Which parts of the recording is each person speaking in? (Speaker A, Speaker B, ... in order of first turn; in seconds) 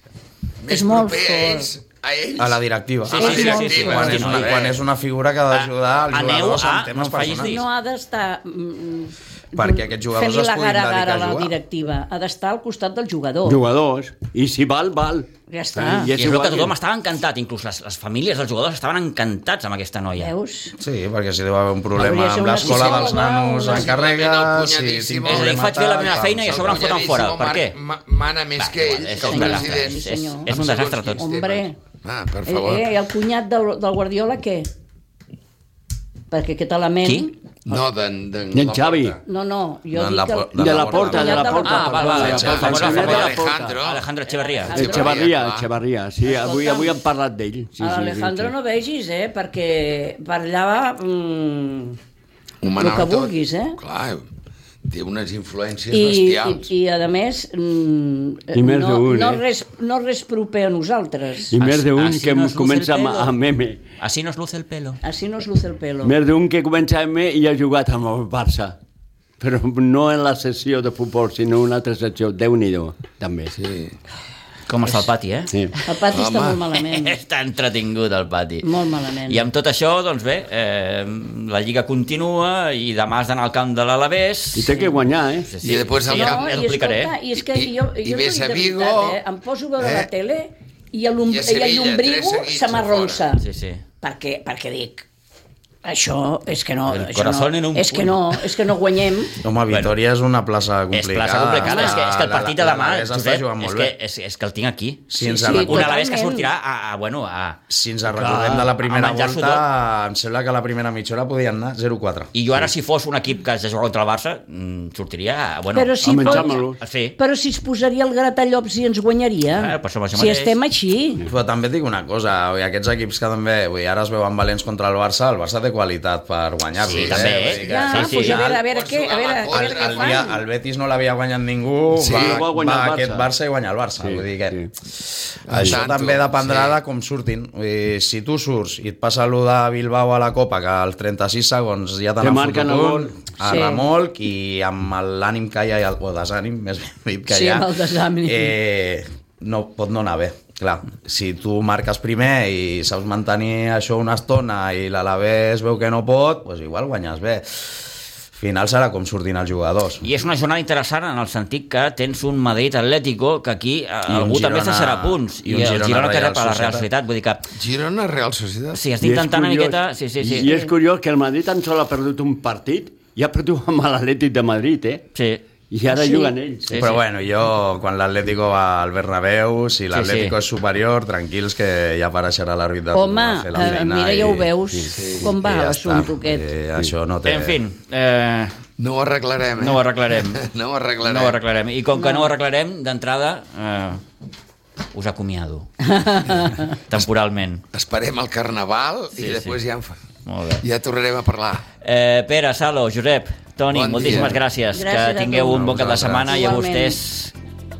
Speaker A: 0.6-4.8, 22.8-32.9, 37.6-39.2, 42.0-44.1, 44.7-45.7, 52.6-54.3, 54.8-56.7, 73.5-73.9, 76.1-76.6, 85.6-86.5, 87.4-89.2, 89.8-90.1, 91.3-93.2, 127.0-130.3, 132.0-132.4, 135.5-136.8, 167.5-168.8, 185.0-185.3, 188.8-191.4, 197.7-199.9, 200.6-201.7, 203.7-204.4
Speaker B: 0.7-1.7, 3.2-4.2, 7.4-13.6, 15.5-16.1, 20.2-20.8, 21.9-23.9, 29.2-30.5, 31.2-31.8, 32.4-34.7, 36.3-37.3, 39.2-42.7, 44.4-45.2, 46.2-46.9, 47.8-52.0, 52.8-53.8, 55.9-61.5, 65.0-66.1, 75.8-77.2, 78.6-79.4, 86.1-93.4, 94.0-95.0, 95.8-99.4, 101.6-102.0, 105.2-106.5, 115.7-116.6, 117.2-121.2, 127.5-130.4, 143.4-143.8, 147.3-148.6, 170.4-170.7, 175.9-176.3, 182.9-186.5, 191.9-192.3, 195.8-196.8, 204.7-207.0
Speaker C: 2.4-7.6, 9.6-11.6, 20.8-26.6, 39.9-41.5, 42.2-43.2, 99.4-103.9, 105.1-105.9, 107.7-112.3, 121.2-128.3, 129.5-147.7, 148.2-160.1, 164.1-166.8, 176.7-184.5, 185.3-187.6, 205.5-206.4
Speaker D: 3.1-4.7, 5.5-7.6, 16.2-20.3, 25.2-27.8, 28.6-31.2, 41.6-45.1, 61.6-63.3, 64.0-65.0, 74.7-76.0, 76.8-78.7, 79.3-84.9, 85.5-87.2, 93.4-93.8, 96.8-98.6, 100.9-107.6, 108.8-109.6, 112.3-117.2, 119.5-120.5, 126.8-128.5, 160.0-167.5, 168.7-170.5, 175.1-175.4, 176.7-177.0, 179.9-180.3, 187.2-188.6, 189.6-190.5, 191.0-194.0, 194.9-195.7, 196.9-197.6, 199.2-199.6, 200.2-200.6, 201.8-207.3
Speaker E: 13.4-16.7, 38.5-39.2, 40.5-43.8, 44.7-48.5, 58.5-59.4, 61.5-63.8, 66.0-68.8, 69.4-73.6, 74.9-75.7, 84.5-85.5, 108.1-108.7, 116.0-116.8, 132.0-133.3, 134.0-134.7, 142.2-143.2, 169.0-175.1, 175.7-176.9, 184.7-185.2